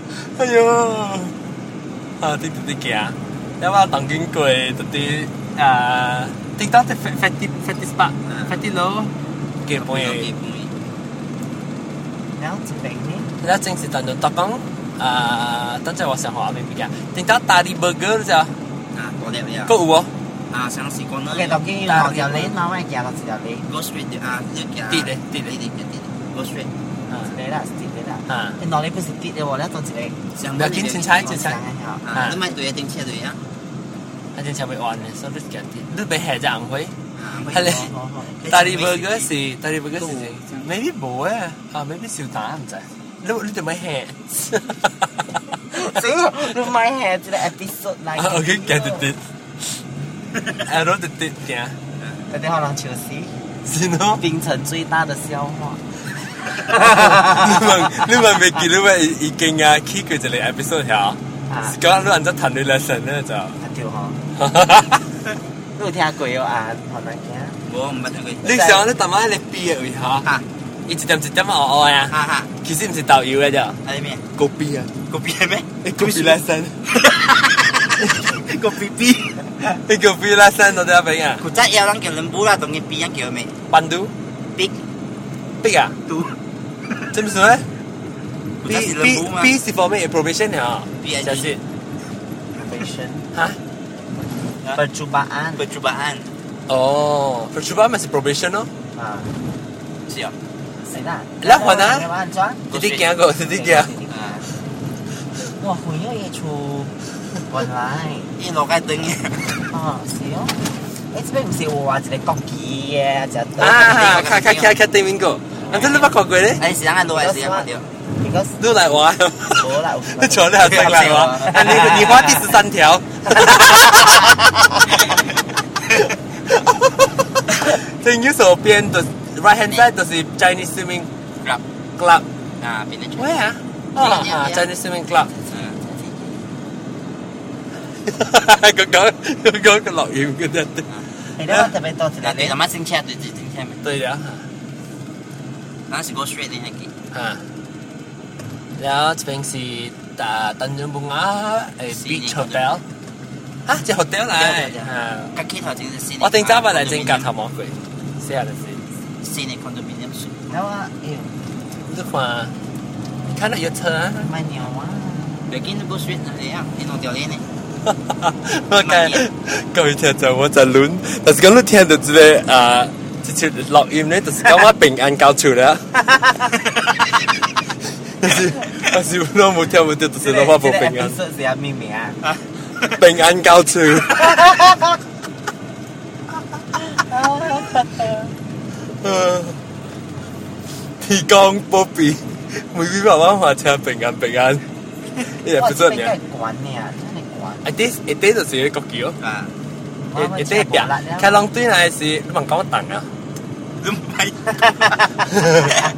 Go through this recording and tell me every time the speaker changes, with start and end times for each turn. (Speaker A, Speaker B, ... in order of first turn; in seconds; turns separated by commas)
Speaker A: 0.2-1.3, Speaker A: 2.2-9.1, Speaker B: 8.3-8.5, Speaker A: 9.7-10.3, Speaker B: 9.7-10.7, Speaker C: 12.4-13.3, Speaker A: 13.4-18.5, Speaker B: 18.9-19.7, Speaker A: 19.7-20.1, Speaker B: 20.5-21.6, Speaker C: 21.3-23.7, Speaker A: 21.9-22.5, Speaker B: 23.7-26.7, Speaker A: 24.9-25.6, Speaker C: 27.1-30.2, Speaker A: 28.3-28.6, Speaker B: 30.4-31.4, Speaker A: 30.6-31.6, Speaker C: 31.2-32.0, Speaker B: 32.0-33.4, Speaker A: 32.1-32.4, Speaker A: 34.4-36.9, Speaker B: 37.1-39.3, Speaker A: 37.5-37.9, Speaker C: 37.6-38.4, Speaker A: 38.5-45.1, Speaker B: 40.0-40.7, Speaker C: 45.7-49.1, Speaker A: 48.2-49.2, Speaker B: 50.4-50.6, Speaker A: 50.6-51.8, Speaker C: 52.3-53.3, Speaker A: 53.7-54.2, Speaker C: 54.2-55.8, Speaker C: 56.6-58.1, Speaker A: 56.7-63.6, Speaker C: 61.5-61.8, Speaker C: 63.6-64.2, Speaker A: 64.4-65.0, Speaker C: 65.8-67.6, Speaker B: 67.7-68.4, Speaker C: 68.4-68.8, Speaker A: 68.4-70.3, Speaker A: 70.9-73.8, Speaker B: 72.1-72.5, Speaker B: 73.8-74.2, Speaker A: 74.3-74.9, Speaker B: 75.1-79.5, Speaker A: 75.8-76.8, Speaker A: 79.9-81.4, Speaker B: 81.4-83.5, Speaker A: 83.7-84.1, Speaker A: 85.6-86.0, Speaker B: 86.1-86.3, Speaker A: 87.1-87.7, Speaker B: 88.6-89.5, Speaker A: 88.7-91.6, Speaker B: 91.0-91.6, Speaker C: 92.6-93.3, Speaker C: 94.8-95.7, Speaker B: 95.6-96.3, Speaker A: 96.7-98.7, Speaker C: 99.0-99.3, Speaker B: 100.1-100.3, Speaker C: 100.9-102.7, Speaker A: 101.4-102.1, Speaker B: 102.7-103.2, Speaker A: 102.7-103.9, Speaker C: 103.4-104.5, Speaker B: 104.1-104.4, Speaker C: 105.6-106.9, Speaker C: 107.5-108.3, Speaker B: 108.4-109.7, Speaker C: 109.7-110.6, Speaker C: 111.1-114.2, Speaker A: 113.6-116.6, Speaker B: 113.7-114.8, Speaker B: 115.7-117.9, Speaker C: 117.1-118.7, Speaker A: 118.6-124.4, Speaker C: 119.5-122.5, Speaker B: 120.6-122.4, Speaker C: 123.4-124.3, Speaker A: 126.5-131.1, Speaker A: 132.0-132.2, Speaker B: 132.6-133.4, Speaker A: 133.2-135.3, Speaker B: 134.0-134.7, Speaker B: 135.5-135.8, Speaker C: 135.8-136.4, Speaker A: 138.1-140.9, Speaker C: 141.4-142.6, Speaker B: 142.2-143.8, Speaker A: 143.8-144.5, Speaker B: 145.9-146.9, Speaker A: 147.1-147.4, Speaker A: 148.8-152.8, Speaker B: 151.9-152.8, Speaker A: 153.7-155.3, Speaker B: 154.3-157.3, Speaker A: 156.2-158.8, Speaker B: 159.2-160.5, Speaker C: 160.5-161.3, Speaker A: 161.8-162.5, Speaker A: 163.3-164.3, Speaker C: 164.2-165.5, Speaker B: 165.5-167.4, Speaker A: 167.9-175.8, Speaker B: 168.8-169.2, Speaker A: 178.2-181.2, Speaker C: 180.2-182.2, Speaker B: 182.3-182.9, Speaker A: 183.0-184.6, Speaker C: 184.2-185.0, Speaker C: 186.9-188.3, Speaker A: 189.0-189.6, Speaker A: 191.0-194.6, Speaker A: 195.4-196.1, Speaker C: 195.5-197.7, Speaker A: 197.7-199.2, Speaker B: 199.2-199.5, Speaker C: 200.0-201.4, Speaker A: 200.2-203.1, Speaker B: 203.8-205.7, Speaker A: 205.3-205.7